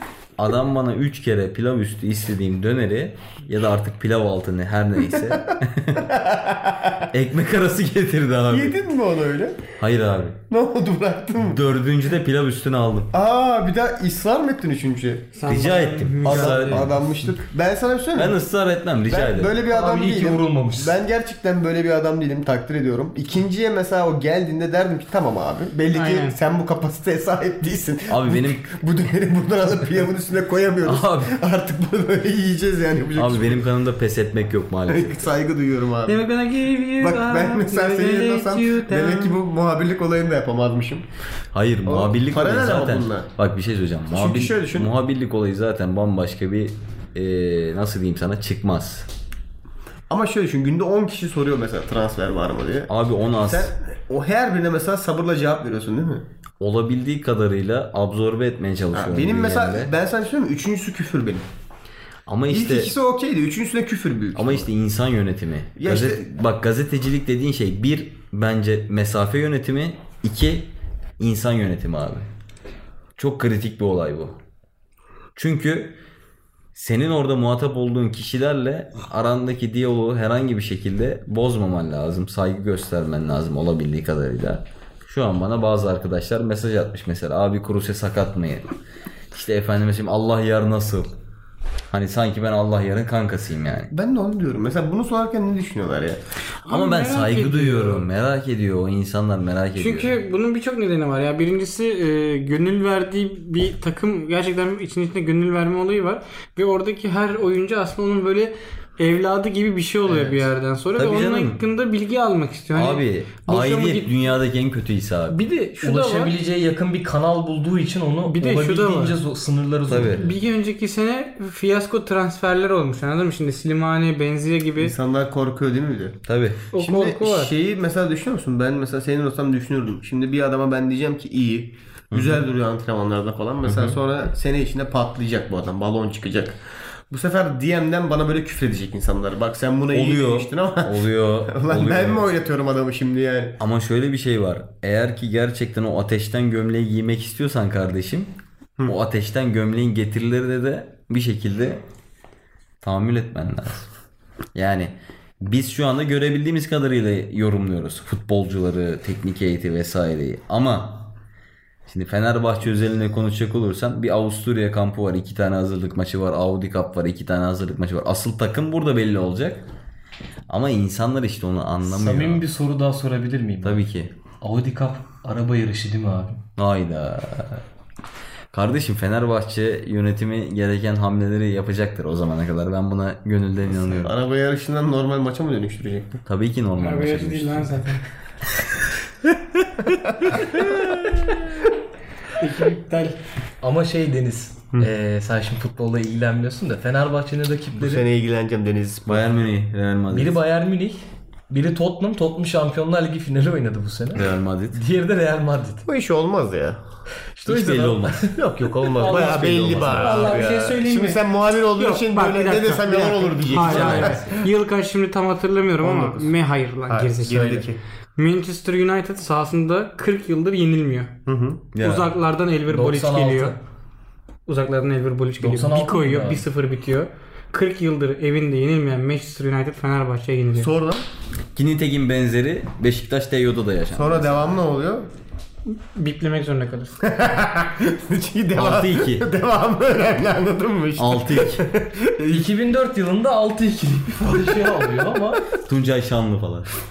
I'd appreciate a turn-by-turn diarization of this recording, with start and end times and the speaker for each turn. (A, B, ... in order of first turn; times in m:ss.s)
0:00.4-0:06.2 A
0:06.1-0:07.0 B
0:07.1-0:08.8 A
0:08.5-0:09.6 B
0:09.8-0:10.4 A
0:10.5-0:11.6 B
0:11.4-0:13.1 A
0:13.1-0:15.6 B
0:15.4-0:16.8 C
0:15.5-0:17.0 A
0:16.2-0:18.4 B
0:18.1-0:19.6 A
0:19.1-0:33.7 B
0:19.6-0:21.0 D
0:25.9-0:26.3 C
0:28.1-0:28.7 A
0:30.8-0:31.4 A
0:33.2-0:35.3 A
0:34.9-0:36.2 B
0:36.0-0:39.4 C
0:37.0-0:41.0 B
0:41.5-0:49.1 A
0:41.8-0:43.3 B
0:44.1-0:44.9 B
0:50.1-0:52.9 B
0:52.9-0:53.7 A
0:53.4-0:56.2 B
0:56.6-0:59.9 A
0:58.9-1:01.4 B
1:02.3-1:02.9 A
1:02.5-1:04.7 B
1:04.3-1:12.3 A
1:05.8-1:06.2 B
1:13.2-1:14.4 A
1:15.4-1:16.0 A
1:16.7-1:28.7 A
1:29.3-1:31.1 A
1:31.9-1:33.9 A
1:33.9-1:36.2 B
1:36.6-1:38.1 C
1:36.7-1:40.2 A
1:39.8-1:54.2 C
1:51.0-1:51.6 A
1:52.7-1:55.4 A
1:55.3-1:56.3 C
1:55.8-2:00.3 D
1:58.2-1:59.2 C
1:59.9-2:00.2 A
2:00.2-2:04.9 C
2:04.8-2:06.2 B
2:06.3-2:06.6 A
2:06.7-2:07.5 C
2:06.7-2:16.6 B
2:12.1-2:12.4 A
2:13.6-2:14.0 A
2:17.1-2:23.6 B
2:19.9-2:22.2 A
2:23.6-2:28.3 A
2:28.8-2:31.8 A
2:32.8-2:33.9 A
2:34.5-2:41.1 A
2:41.9-2:49.6 A
2:50.5-2:52.4 A
2:51.8-2:53.8 D
2:53.6-2:54.1 A
2:54.4-2:56.4 D
2:56.6-2:57.6 A
2:58.5-3:04.2 A
3:03.9-3:06.2 B
3:06.2-3:07.9 A
3:06.8-3:08.0 C
3:09.9-3:10.4 B
3:12.4-3:13.2 C
3:13.6-3:18.0 D
3:17.8-3:19.3 B
3:19.1-3:20.4 A
3:20.1-3:25.8 D
3:24.1-3:24.8 A
3:25.8-3:26.8 B
3:27.4-3:28.3 A
3:27.4-3:30.6 D
3:28.3-3:34.3 B
3:29.9-3:31.2 C
3:31.7-3:37.6 C
3:33.6-3:34.2 A
3:33.7-3:34.4 D
3:35.8-3:36.3 B
3:36.9-3:37.8 B
3:37.2-3:37.6 D
3:38.2-3:41.2 C
3:41.2-3:41.7 B
3:41.7-3:42.1 A
3:41.8-3:43.6 C
3:42.7-3:43.6 D
3:44.4-3:50.7 C
3:45.4-3:46.4 D
3:50.6-3:51.0 B
3:51.5-3:54.6 A
3:53.9-3:55.1 B
3:55.7-3:57.0 C
3:57.0-4:02.5 B
3:58.6-3:59.3 A
4:01.0-4:01.7 A
4:02.3-4:05.4 D
4:05.6-4:06.7 A